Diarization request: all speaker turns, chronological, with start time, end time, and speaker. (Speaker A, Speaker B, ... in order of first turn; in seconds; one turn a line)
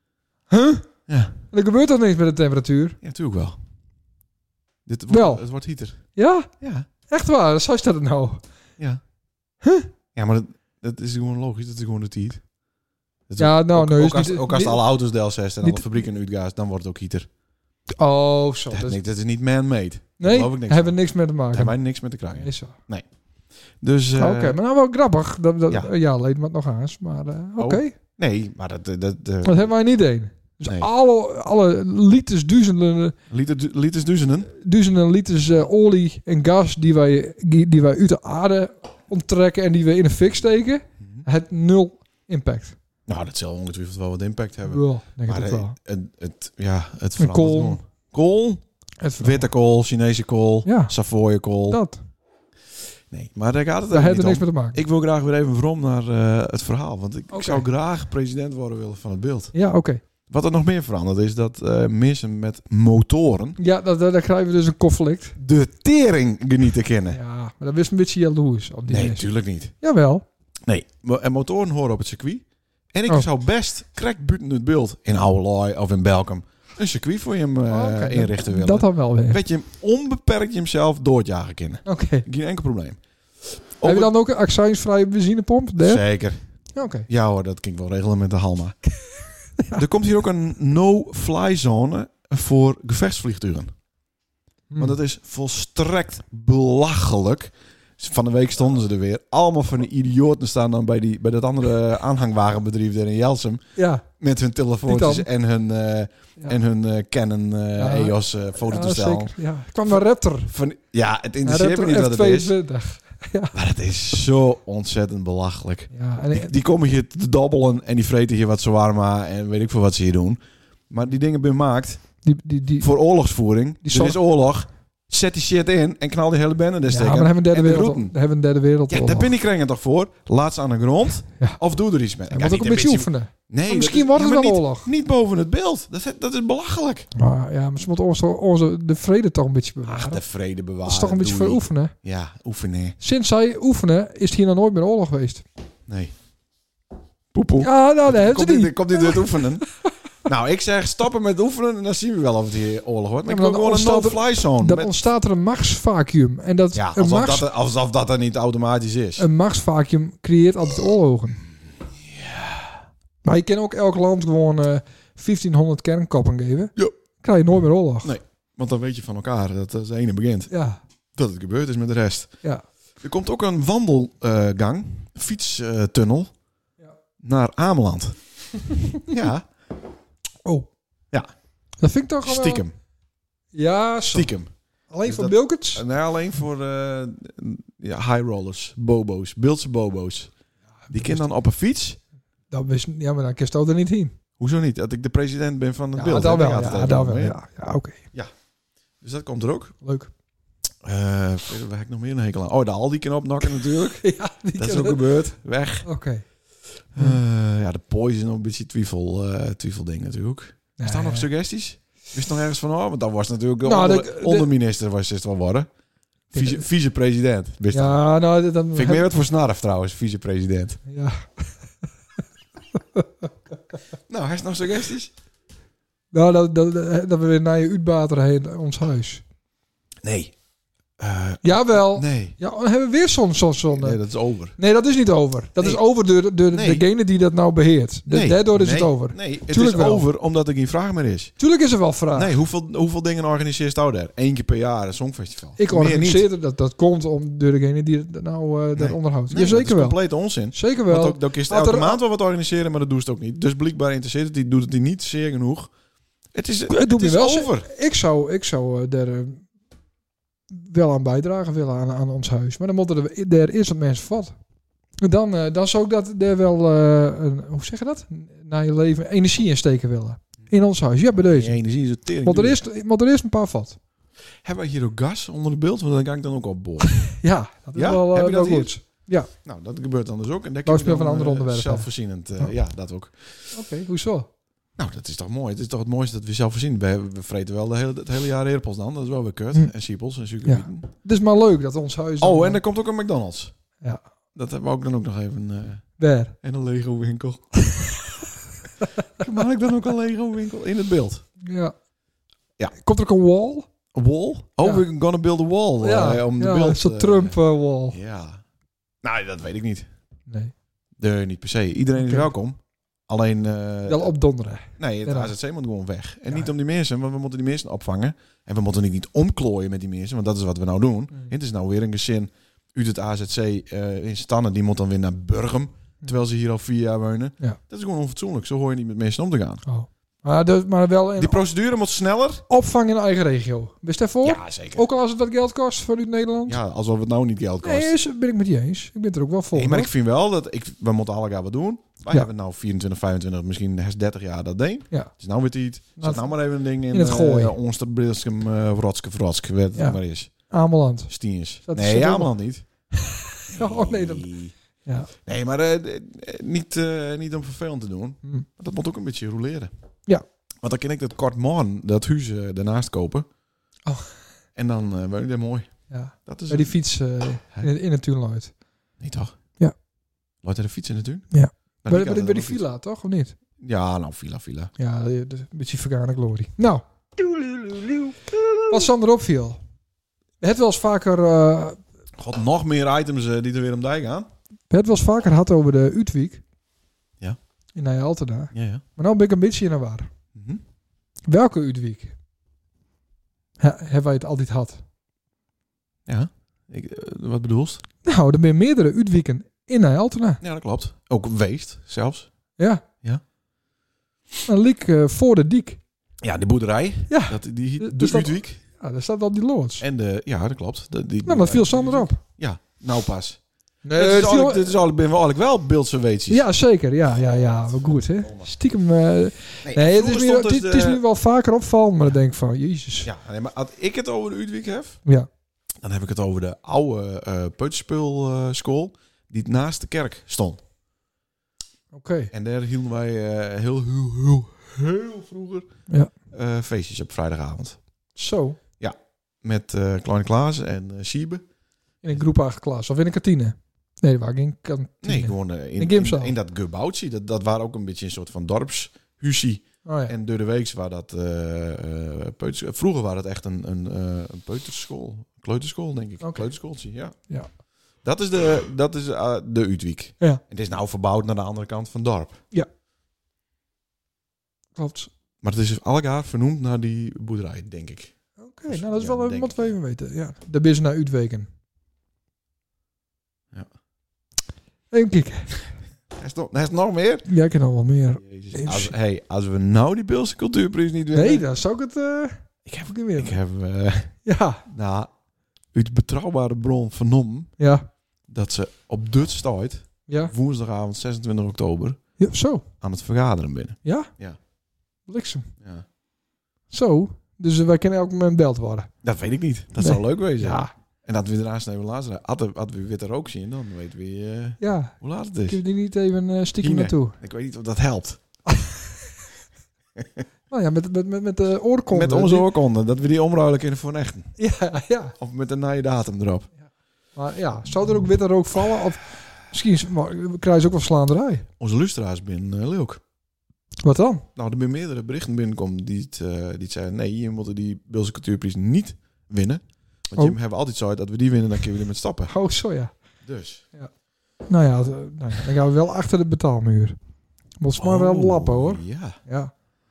Speaker A: 0.5-0.9
Speaker B: 1.1-1.4
Speaker A: 1.5-3.0
Speaker B: 3.0-3.6
Speaker B: 4.8-6.0
Speaker A: 5.1-5.4
Speaker A: 6.0-6.5
Speaker B: 6.6-6.9
Speaker A: 7.0-8.4
Speaker A: 9.6-9.9
Speaker B: 10.1-12.4
Speaker B: 13.3-17.3
Speaker A: 13.4-14.8
Speaker A: 15.6-15.9
Speaker A: 18.0-19.0
Speaker B: 18.7-21.0
Speaker A: 20.2-21.7
Speaker B: 21.5-23.1
Speaker A: 22.3-22.8
Speaker B: 23.8-24.6
Speaker A: 24.2-27.9
Speaker B: 27.6-29.7
Speaker A: 29.4-33.1
Speaker B: 33.3-34.5
Speaker A: 34.5-42.8
Speaker B: 43.1-48.6
Speaker A: 44.6-45.7
Speaker A: 47.2-47.8
Speaker A: 49.0-49.5
Speaker B: 49.2-51.8
Speaker A: 50.6-50.9
Speaker A: 51.7-52.0
Speaker B: 53.1-59.5
Speaker A: 53.9-54.8
Speaker A: 57.3-57.6
Speaker A: 59.5-60.0
Speaker B: 60.3-63.6
Speaker A: 63.6-65.3
Speaker B: 65.4-67.2
Speaker A: 67.1-69.3
Speaker B: 68.9-69.7
Speaker A: 69.8-70.2
Speaker B: 70.7-83.0
Speaker A: 77.7-79.4
Speaker A: 81.8-82.2
Speaker B: 83.8-84.1
Speaker A: 83.8-86.0
Speaker B: 85.8-86.4
Speaker A: 86.7-87.1
Speaker B: 87.1-88.8
Speaker A: 89.6-89.8
Speaker B: 89.8-93.7
Speaker A: 94.7-95.0
Speaker B: 94.8-103.6
Speaker A: 103.8-104.0
Speaker B: 104.2-109.3
Speaker A: 104.8-105.3
Speaker A: 107.8-110.5
Speaker B: 109.9-112.5
Speaker A: 111.4-113.5
Speaker B: 113.5-122.1
Speaker A: 115.9-116.5
Speaker A: 122.2-122.9
Speaker B: 122.8-128.1
Speaker A: 123.8-124.2
Speaker A: 126.9-129.3
Speaker B: 128.9-137.1
Speaker A: 132.3-134.9
Speaker A: 137.1-140.2
Speaker B: 139.8-143.0
Speaker A: 140.8-141.9
Speaker A: 143.0-145.4
Speaker B: 145.9-146.1
Speaker B: 147.3-149.6
Speaker A: 147.6-149.9
Speaker B: 150.2-155.0
Speaker A: 153.3-157.5
Speaker B: 156.7-159.2
Speaker A: 159.2-161.4
Speaker B: 162.1-162.8
Speaker A: 163.2-168.1
Speaker B: 168.0-170.5
Speaker A: 170.5-170.8
Speaker B: 171.2-172.3
Speaker B: 173.0-176.3
Speaker B: 177.2-178.2
Speaker B: 179.0-179.5
Speaker A: 181.8-182.6
Speaker B: 182.2-182.7
Speaker A: 183.5-184.3
Speaker B: 184.1-184.5
Speaker A: 184.9-185.8
Speaker B: 185.0-190.3
Speaker A: 190.9-191.2
Speaker B: 190.9-192.0
Speaker A: 192.5-194.1
Speaker B: 194.4-197.4
Speaker A: 195.9-198.0
Speaker B: 199.0-199.7
Speaker A: 199.8-200.1
Speaker B: 200.8-204.0
Speaker A: 203.8-205.1
Speaker B: 204.6-205.9
Speaker A: 205.8-206.2
Speaker B: 206.9-215.7
Speaker A: 210.8-211.3
Speaker A: 213.6-214.5
Speaker B: 216.3-218.0
Speaker A: 216.3-216.6
Speaker A: 217.7-219.0
Speaker B: 218.7-220.8
Speaker A: 220.9-221.5
Speaker A: 222.7-223.3
Speaker B: 224.1-225.1
Speaker A: 226.1-229.2
Speaker B: 230.0-230.3
Speaker B: 231.0-232.4
Speaker A: 231.4-234.0
Speaker B: 233.7-234.5
Speaker A: 234.6-240.1
Speaker B: 236.5-236.8
Speaker B: 238.1-241.3
Speaker A: 241.4-242.3
Speaker B: 242.1-246.2
Speaker A: 245.6-252.0
Speaker B: 248.8-255.7
Speaker B: 256.3-257.7
Speaker A: 256.7-259.4
Speaker A: 260.5-264.3
Speaker A: 265.0-271.6
Speaker B: 271.1-272.6
Speaker A: 272.2-273.8
Speaker B: 274.4-277.1
Speaker A: 276.9-279.3
Speaker B: 277.7-278.7
Speaker B: 279.4-283.6
Speaker A: 280.6-282.5
Speaker A: 283.5-284.3
Speaker B: 284.8-290.9
Speaker A: 290.4-292.6
Speaker B: 292.2-293.5
Speaker B: 294.3-295.9
Speaker A: 296.0-296.3
Speaker B: 296.4-297.4
Speaker A: 297.6-298.2
Speaker B: 299.2-301.2
Speaker A: 301.4-301.7
Speaker A: 302.8-303.6
Speaker B: 303.9-307.4
Speaker A: 305.8-308.0
Speaker B: 307.9-308.4
Speaker B: 309.0-309.9
Speaker A: 310.3-310.5
Speaker B: 311.0-314.1
Speaker A: 311.9-312.3
Speaker A: 313.9-315.3
Speaker B: 314.8-329.6
Speaker A: 329.6-331.4
Speaker B: 331.2-332.4
Speaker A: 332.5-336.6
Speaker B: 334.2-334.8
Speaker B: 336.5-337.9
Speaker A: 337.6-339.9
Speaker B: 339.5-350.4
Speaker A: 346.0-347.5
Speaker A: 349.8-352.4
Speaker B: 351.1-352.6
Speaker A: 352.9-354.3
Speaker B: 353.5-354.5
Speaker B: 355.2-359.7
Speaker B: 360.6-363.2
Speaker A: 363.9-364.1
Speaker B: 364.6-366.8
Speaker A: 365.9-368.5
Speaker B: 369.0-369.3
Speaker B: 370.4-371.3
Speaker A: 371.3-373.3
Speaker B: 371.8-372.6
Speaker B: 373.6-374.7
Speaker A: 374.8-376.8
Speaker B: 377.2-378.2
Speaker A: 378.7-379.6
Speaker A: 380.4-381.8
Speaker B: 382.2-384.3
Speaker A: 384.7-386.4
Speaker A: 387.7-390.1
Speaker B: 388.5-388.8
Speaker B: 390.3-390.6
Speaker A: 391.3-392.1
Speaker A: 393.6-394.8
Speaker B: 396.1-397.8
Speaker A: 398.0-400.4
Speaker B: 400.4-402.3
Speaker A: 402.6-402.8
Speaker A: 404.5-405.8
Speaker B: 406.2-408.6
Speaker A: 407.1-409.8
Speaker B: 409.8-413.4
Speaker A: 411.2-412.2
Speaker A: 413.8-414.8
Speaker B: 413.9-416.4
Speaker A: 416.3-423.1
Speaker B: 417.2-418.5
Speaker B: 419.6-421.0
Speaker B: 423.0-425.0
Speaker B: 425.8-430.6
Speaker A: 431.9-432.3
Speaker B: 432.3-435.7
Speaker B: 436.3-437.9
Speaker A: 438.1-438.6
Speaker B: 438.8-441.4
Speaker A: 442.0-446.3
Speaker B: 445.0-457.1
Speaker A: 449.8-450.1
Speaker B: 458.0-462.4
Speaker A: 464.8-465.1
Speaker B: 465.4-468.1
Speaker A: 468.4-471.5
Speaker B: 468.7-469.7
Speaker A: 474.9-475.5
Speaker B: 476.1-477.3
Speaker A: 477.3-478.9
Speaker B: 478.2-481.4
Speaker A: 481.1-483.4
Speaker B: 482.6-485.1
Speaker A: 484.2-484.6
Speaker B: 485.7-487.5
Speaker A: 487.6-487.9
Speaker B: 488.3-492.0
Speaker A: 490.1-490.3
Speaker A: 492.2-492.6
Speaker B: 492.8-494.4
Speaker A: 493.8-494.1
Speaker A: 495.1-495.5
Speaker B: 495.6-495.9
Speaker A: 496.7-498.9
Speaker B: 499.0-505.6
Speaker A: 499.8-500.7
Speaker A: 504.6-507.1
Speaker B: 506.6-508.2
Speaker A: 508.5-508.9
Speaker B: 510.0-510.2
Speaker A: 510.5-512.5
Speaker B: 511.9-514.3
Speaker A: 514.4-515.1
Speaker B: 515.2-516.5
Speaker A: 517.1-521.5
Speaker B: 521.6-523.0
Speaker A: 523.8-524.2
Speaker B: 524.4-532.3
Speaker A: 532.3-532.9
Speaker B: 533.2-533.6
Speaker A: 534.5-537.0
Speaker A: 537.6-539.5
Speaker B: 537.8-539.2